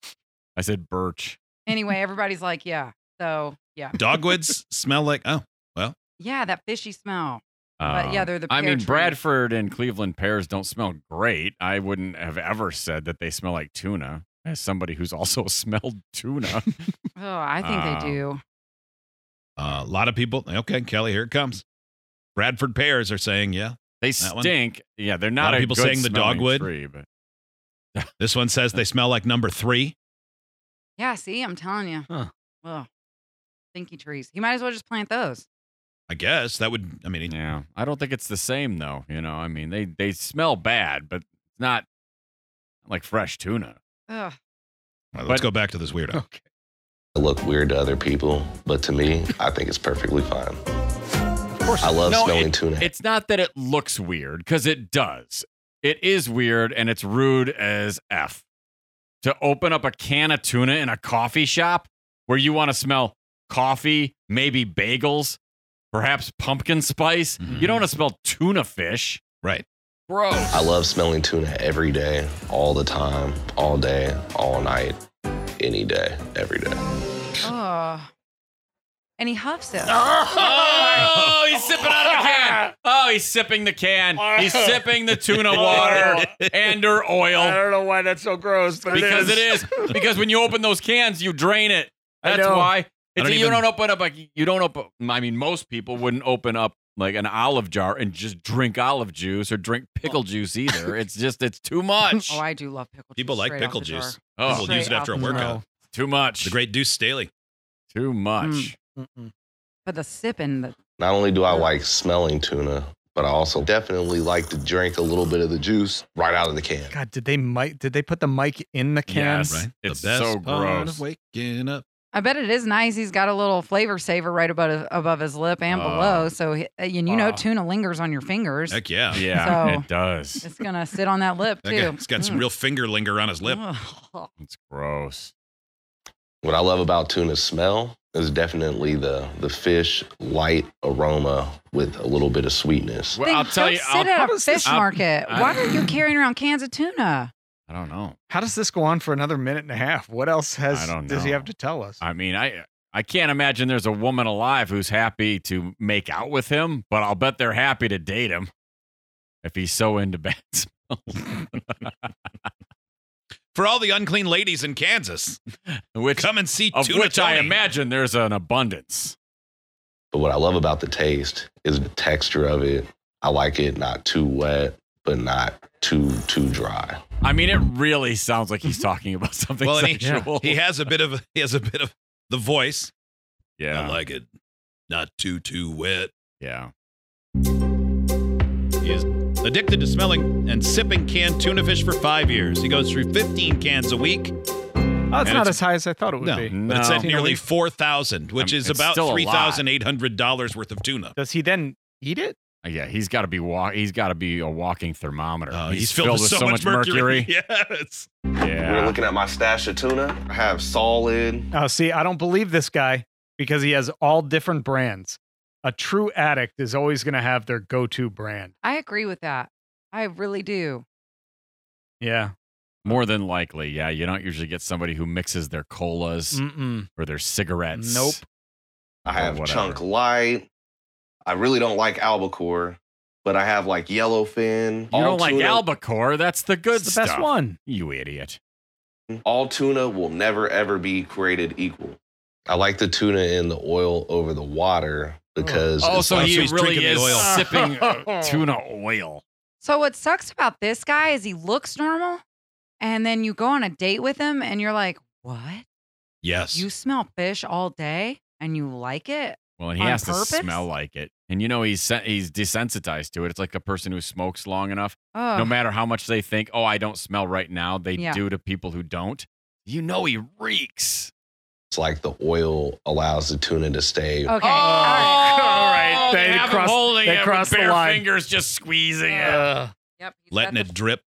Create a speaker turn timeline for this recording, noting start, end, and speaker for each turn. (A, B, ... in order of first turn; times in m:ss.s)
0:00.6-0:01.4 A
0:01.7-0:04.0 B
0:04.0-0:05.9 C
0:06.2-0:09.2 B
0:07.8-0:16.9 A
0:17.2-0:18.4 B
0:17.6-0:18.2 A
0:19.6-0:21.6 C
0:22.4-0:24.5 C
0:24.0-0:27.0 A
0:25.4-0:26.7 C
0:28.2-0:29.9 C
0:31.0-0:32.1 B
0:32.6-0:32.9 B
0:33.7-0:35.4 B
0:36.1-0:37.3 C
0:37.3-0:41.8 A
0:42.8-0:43.8 A
0:44.1-0:44.4 B
0:45.1-0:46.2 C
0:45.2-0:45.5 A
0:46.1-0:46.4 D
0:47.2-0:50.6 E
0:51.5-0:52.0 D
0:51.8-0:52.9 E
0:52.0-0:58.4 A
0:59.2-1:05.4 A
1:05.9-1:09.2 A
1:07.4-1:07.8 C
1:10.1-1:10.7 A
1:10.5-1:15.0 E
1:15.6-1:16.8 E
1:17.4-1:18.1 B
1:19.2-1:21.0 B
1:20.1-1:20.4 D
1:20.1-1:27.6 A
1:22.0-1:22.7 D
1:24.1-1:26.4 D
1:25.4-1:26.5 C
1:27.3-1:29.9 D
1:28.9-1:42.4 A
1:32.2-1:32.7 D
1:33.1-1:33.6 C
1:42.2-1:45.5 B
1:43.2-1:45.6 C
1:44.2-1:44.7 A
1:44.7-1:45.6 D
1:45.8-1:46.6 A
1:46.4-1:47.3 C
1:47.9-1:48.8 A
1:48.4-1:48.7 B
1:49.0-1:49.3 D
1:49.8-1:50.7 B
1:51.0-1:56.9 E
1:51.5-1:51.7 B
1:56.9-1:59.6 D
1:59.1-2:01.0 A
1:59.5-2:01.8 C
2:02.1-2:08.8 B
2:05.7-2:06.3 A
2:07.1-2:07.5 D
2:08.7-2:09.3 C
2:09.1-2:10.4 A
2:09.3-2:09.9 B
2:10.4-2:12.4 B
2:11.6-2:13.6 C
2:13.4-2:14.3 B
2:14.4-2:15.3 A
2:16.4-2:23.2 E
2:23.1-2:25.9 A
2:23.2-2:27.3 B
2:24.2-2:24.8 D
2:27.7-2:28.2 A
2:28.3-2:32.0 D
2:30.7-2:38.5 A
2:39.4-2:42.1 A
2:43.5-2:45.4 C
2:45.7-2:49.2 A
2:46.2-2:47.6 C
2:50.1-2:57.0 E
2:57.2-3:00.6 A
2:59.6-3:02.9 C
3:00.0-3:00.3 D
3:03.6-3:04.0 A
3:03.7-3:04.2 C
3:04.9-3:06.1 C
3:06.4-3:06.7 A
3:08.8-3:14.3 C
3:15.1-3:17.4 D
3:15.2-3:15.6 C
3:16.2-3:21.1 C
3:16.5-3:17.3 A
3:18.4-3:19.6 A
3:21.2-3:22.4 D
3:22.6-3:27.3 A
3:25.5-3:28.1 C
3:28.4-3:29.0 A
3:28.6-3:31.5 E
3:31.5-3:38.5 D
3:38.6-3:40.8 B
3:42.0-3:42.3 D
3:42.8-3:48.2 A
3:46.3-3:46.9 D
3:47.7-3:48.2 D
3:49.0-3:50.5 E
3:49.1-3:49.8 A
3:51.2-3:55.6 E
3:54.9-3:58.4 A
3:56.8-3:57.6 D
3:59.1-4:02.0 E
4:02.5-4:06.3 E
4:05.4-4:05.7 D
4:05.8-4:09.2 A
4:06.1-4:07.5 C
4:07.0-4:08.4 D
4:09.6-4:12.2 B
4:12.8-4:15.6 B
4:16.2-4:16.6 C
4:16.5-4:20.6 B
4:19.6-4:31.1 A
4:25.1-4:25.5 B
4:28.0-4:28.2 B
4:31.7-4:34.3 E
4:34.2-4:35.2 B
4:34.4-4:38.1 D
4:34.8-4:39.5 A
4:39.0-4:39.4 B
4:39.3-4:39.7 D
4:40.0-4:40.7 B
4:40.3-4:41.0 C